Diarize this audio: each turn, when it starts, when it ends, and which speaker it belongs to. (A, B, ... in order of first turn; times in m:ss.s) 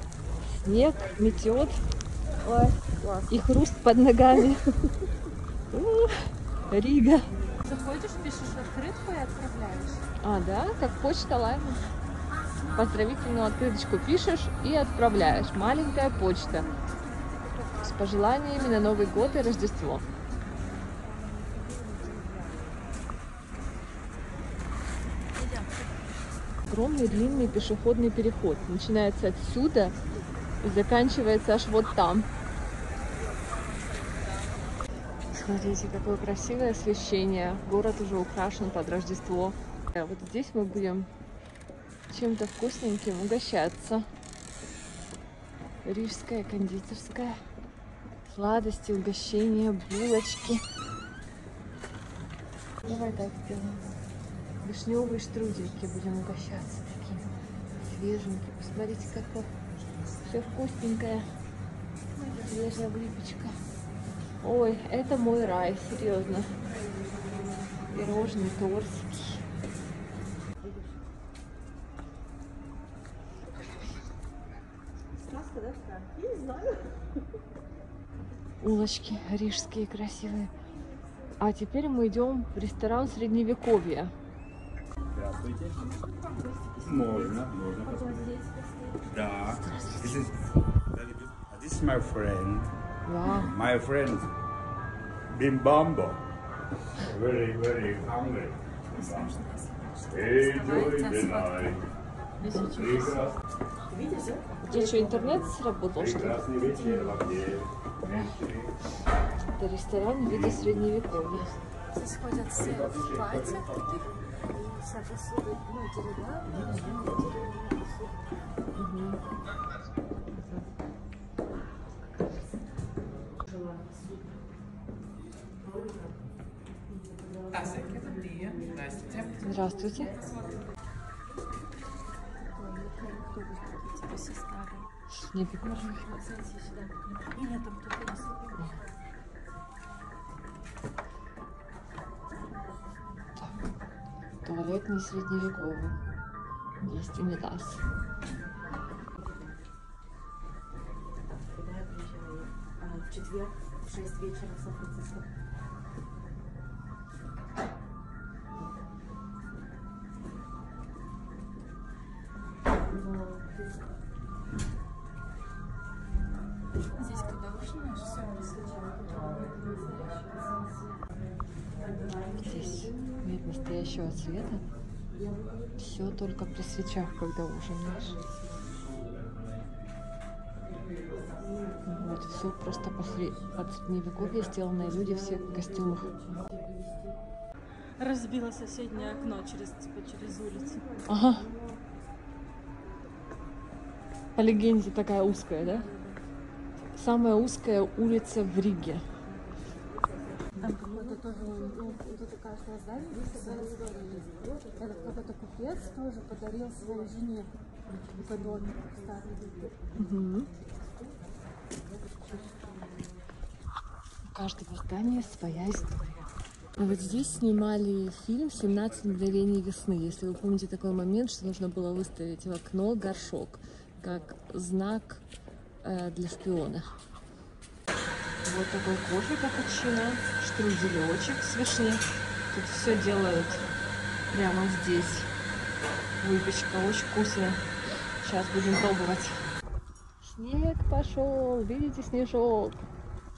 0:00.5-0:01.8 A
0:02.4-0:02.8 A
0:03.3-0:04.6 A
0:05.7-0:07.3 A
0:07.6-0:10.0 B
0:10.2-0:11.9 A
0:12.7-0:16.7 A
0:17.8-0:20.0 A
0:25.4-0:25.7 B
0:26.7-0:30.0 A
0:30.6-0:32.3 A
0:35.3-0:41.1 A
0:42.1-0:44.0 A
0:45.8-0:47.4 A
0:48.2-0:50.6 A
0:52.8-0:53.8 A
0:54.6-0:59.5 A
1:00.2-1:01.2 A
1:02.3-1:03.6 A
1:04.4-1:06.6 A
1:07.9-1:09.4 A
1:18.6-1:20.5 A
1:21.4-1:24.1 A
1:25.1-1:25.8 C
1:25.6-1:29.0 B
1:26.8-1:28.3 C
1:29.0-1:32.7 C
1:29.6-1:30.6 B
1:29.7-1:30.0 A
1:33.0-1:33.6 A
1:33.3-1:34.4 C
1:35.3-1:36.2 C
1:36.9-1:39.3 C
1:38.9-1:41.8 B
1:40.0-1:41.8 C
1:42.4-1:43.3 B
1:42.6-1:43.4 C
1:43.9-1:44.5 D
1:44.7-1:46.8 A
1:45.9-1:48.8 C
1:48.0-1:48.3 A
1:49.5-1:51.5 A
1:50.2-1:50.9 C
1:51.9-1:57.6 B
1:52.5-1:53.7 C
1:58.7-1:59.2 A
2:07.6-2:08.8 D
2:09.0-2:09.3 B
2:09.4-2:10.2 A
2:10.2-2:10.5 B
2:12.4-2:14.9 B
2:15.2-2:16.0 A
2:15.6-2:18.5 B
2:24.4-2:26.0 A
2:26.8-2:27.8 A
2:31.6-2:35.2 D
2:47.0-2:50.2 B
2:52.4-2:54.7 A
2:55.8-2:58.2 A
3:01.8-3:06.3 A
3:08.0-3:10.9 B
3:11.0-3:11.5 A
3:14.3-3:15.9 A
3:15.6-3:16.2 B
3:16.9-3:19.0 A
3:20.5-3:27.5 B
3:28.1-3:29.7 B
3:29.9-3:30.5 A
3:34.3-3:36.1 A
3:36.8-3:45.2 A
3:45.8-3:46.9 A
3:48.4-3:53.7 A
3:54.3-3:55.3 A
3:56.2-3:57.6 A
3:58.2-3:59.4 A
4:00.2-4:02.8 A